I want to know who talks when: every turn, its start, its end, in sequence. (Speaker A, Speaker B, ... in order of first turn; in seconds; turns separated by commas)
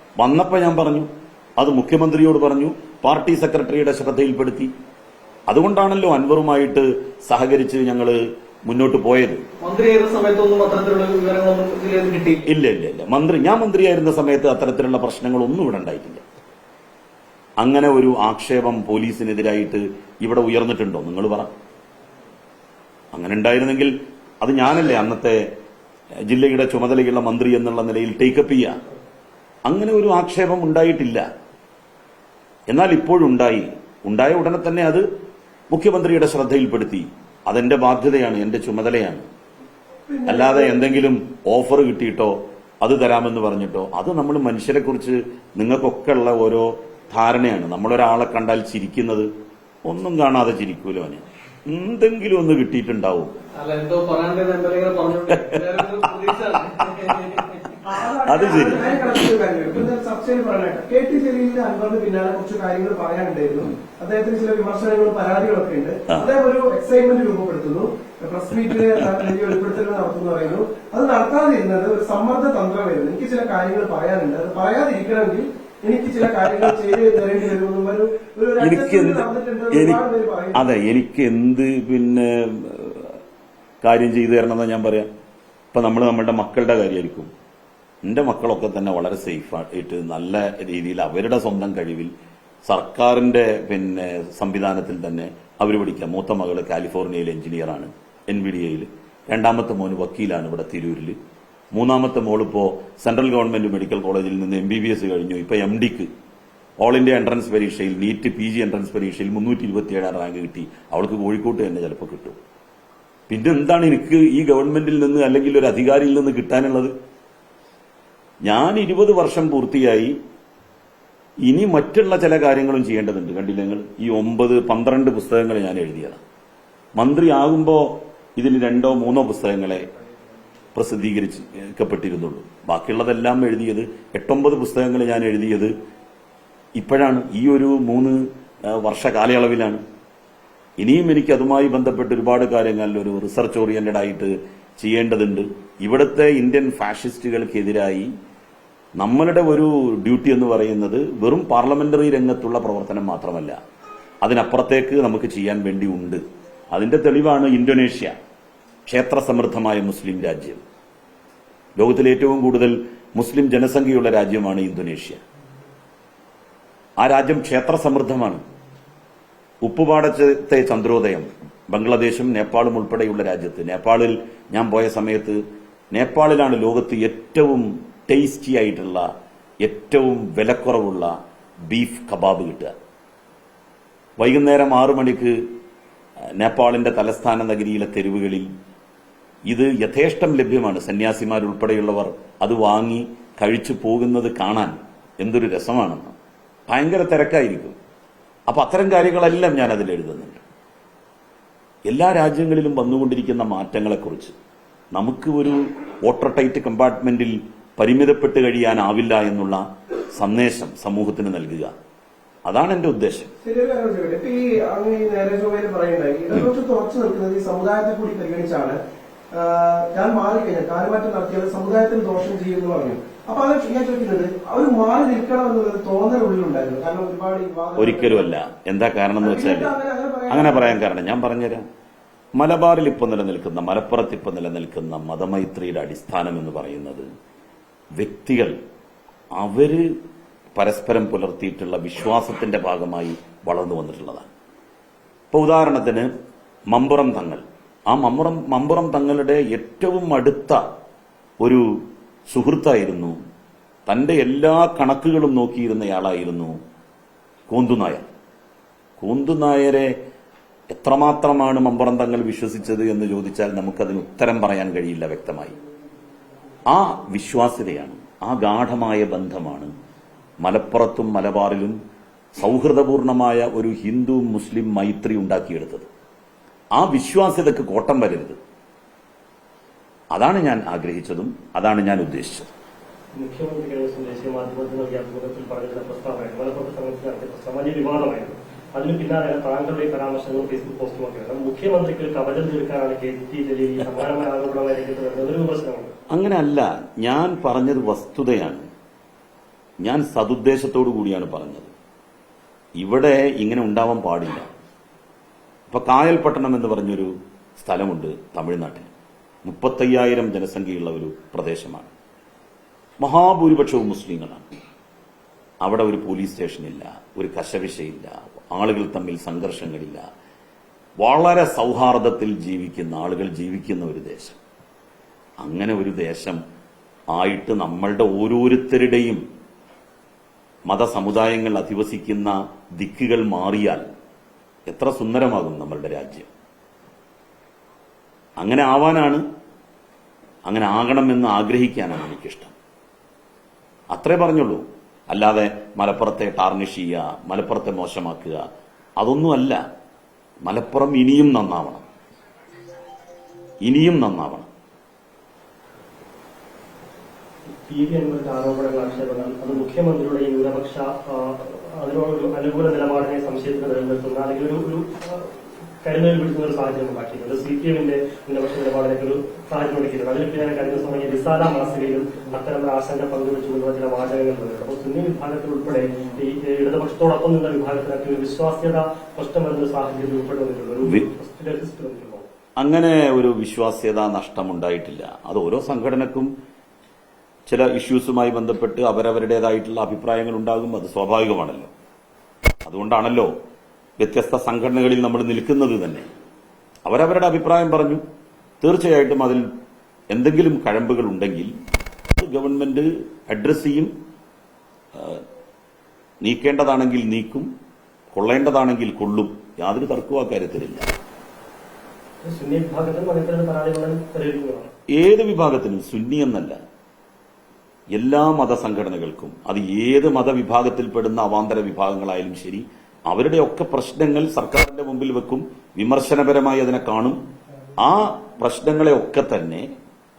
Speaker A: 0.2-4.7, Speaker A: 5.5-9.4, Speaker B: 9.6-12.4, Speaker A: 12.5-16.2, Speaker A: 17.6-21.5, Speaker A: 23.1-25.4, Speaker A: 26.3-28.7, Speaker A: 29.7-31.2, Speaker A: 32.7-35.0, Speaker A: 35.7-39.2, Speaker C: 40.1-40.8, Speaker A: 40.3-49.3, Speaker A: 49.8-53.3, Speaker B: 53.6-57.8, Speaker A: 55.3-56.1, Speaker C: 57.8-80.8, Speaker A: 58.2-59.1, Speaker A: 76.4-76.8, Speaker A: 78.6-80.0, Speaker A: 80.5-83.2, Speaker A: 83.8-85.1, Speaker A: 85.7-87.3, Speaker A: 88.0-92.1, Speaker A: 92.7-101.2, Speaker A: 101.7-106.1, Speaker A: 106.8-112.3, Speaker A: 113.3-116.9, Speaker A: 118.4-120.1, Speaker A: 121.5-126.2, Speaker A: 127.0-129.8, Speaker A: 130.7-135.7, Speaker A: 136.8-138.2, Speaker A: 138.7-139.8, Speaker A: 140.8-148.1, Speaker A: 149.0-153.6, Speaker A: 154.2-158.1, Speaker A: 158.9-160.6, Speaker A: 161.8-165.2, Speaker A: 167.0-168.4, Speaker A: 169.6-175.4, Speaker A: 175.9-179.0, Speaker A: 179.6-181.1, Speaker A: 181.7-182.7, Speaker A: 184.2-185.3, Speaker A: 186.4-188.5, Speaker A: 189.5-196.1, Speaker A: 196.7-197.8, Speaker A: 198.5-200.4, Speaker A: 201.9-204.3, Speaker A: 204.9-209.6, Speaker A: 210.1-211.7, Speaker A: 212.4-213.3, Speaker C: 213.4-218.8, Speaker C: 219.3-228.3, Speaker A: 227.8-229.7, Speaker C: 229.2-230.8, Speaker A: 230.3-231.6, Speaker A: 232.4-237.1, Speaker A: 238.0-238.5, Speaker A: 239.4-239.8, Speaker A: 240.6-244.3, Speaker A: 245.3-246.1, Speaker A: 246.7-250.6, Speaker A: 252.3-253.2, Speaker A: 253.9-256.6, Speaker A: 257.5-258.0, Speaker A: 259.0-259.9, Speaker A: 260.7-265.5, Speaker A: 266.7-269.7, Speaker A: 270.4-271.8, Speaker A: 272.4-275.9, Speaker A: 276.8-278.4, Speaker A: 280.1-282.5, Speaker D: 283.1-295.9, Speaker A: 296.1-298.6, Speaker A: 299.8-301.7, Speaker A: 302.8-304.5, Speaker A: 305.7-308.9, Speaker A: 309.4-311.9, Speaker A: 313.0-314.4, Speaker A: 315.6-320.0, Speaker A: 321.0-324.4, Speaker A: 325.4-326.4, Speaker A: 327.1-329.2, Speaker A: 330.7-333.8, Speaker A: 334.7-336.3, Speaker A: 338.4-339.2, Speaker A: 340.5-342.5, Speaker A: 343.9-348.4, Speaker A: 349.0-349.6, Speaker A: 350.4-351.8, Speaker A: 353.6-354.5, Speaker D: 357.5-382.3, Speaker A: 382.6-386.3, Speaker A: 387.5-391.7, Speaker A: 392.6-393.3, Speaker A: 394.0-396.0, Speaker A: 396.9-398.0, Speaker A: 398.6-399.5, Speaker A: 400.1-401.5, Speaker A: 402.1-403.9, Speaker A: 404.9-405.2, Speaker A: 406.2-407.5, Speaker A: 408.1-410.9, Speaker D: 412.2-414.7, Speaker A: 414.9-416.6, Speaker A: 417.9-427.2, Speaker A: 427.8-429.7